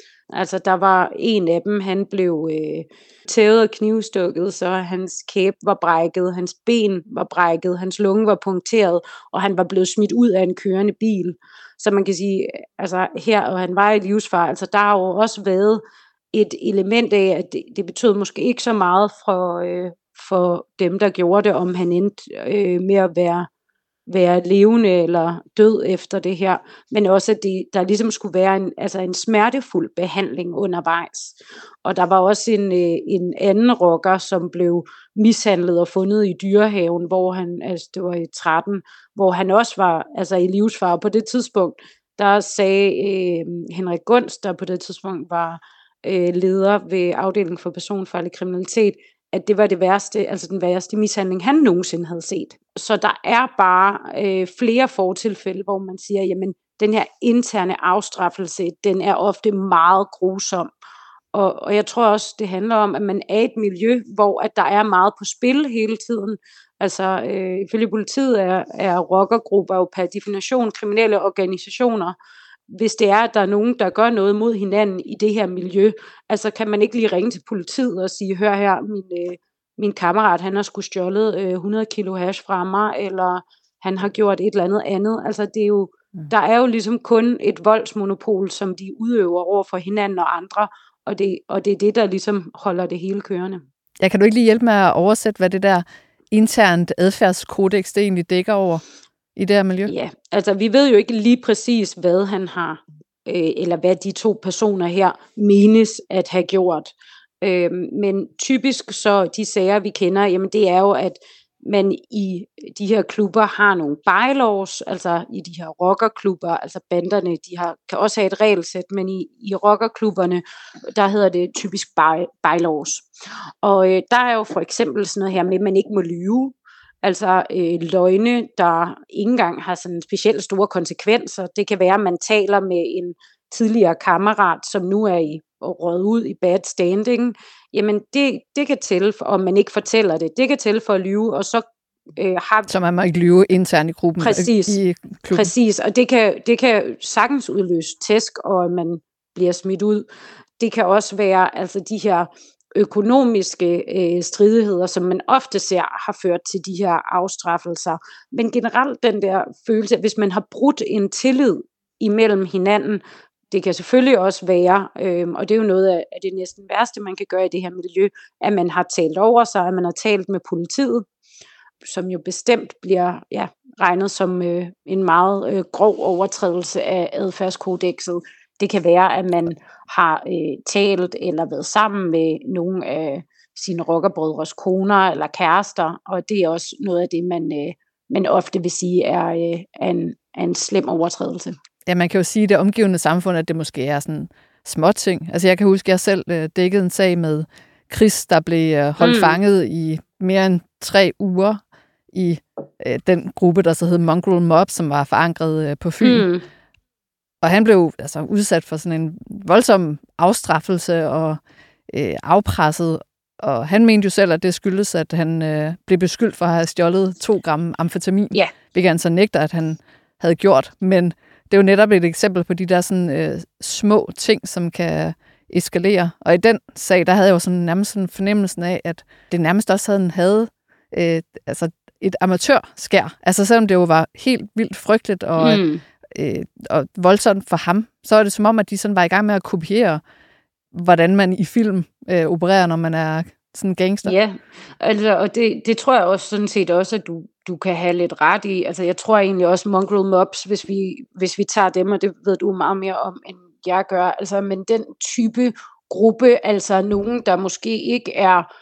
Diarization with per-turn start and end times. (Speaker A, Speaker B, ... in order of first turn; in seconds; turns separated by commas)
Speaker A: 0.3-23.5, Speaker A: 24.1-60.7, Speaker A: 61.3-72.2, Speaker A: 72.7-93.6, Speaker B: 94.0-98.8, Speaker B: 99.4-99.9, Speaker A: 99.9-123.1, Speaker A: 123.6-141.7, Speaker A: 142.2-142.7, Speaker B: 142.7-145.5, Speaker A: 144.2-144.8, Speaker A: 145.3-150.1, Speaker A: 150.6-171.1, Speaker A: 171.8-191.6, Speaker B: 191.9-201.6, Speaker A: 199.0-199.4, Speaker B: 202.1-206.2, Speaker A: 206.0-206.4, Speaker B: 207.4-235.6, Speaker A: 235.4-235.8, Speaker B: 236.2-240.0, Speaker B: 240.7-244.2, Speaker A: 244.1-258.5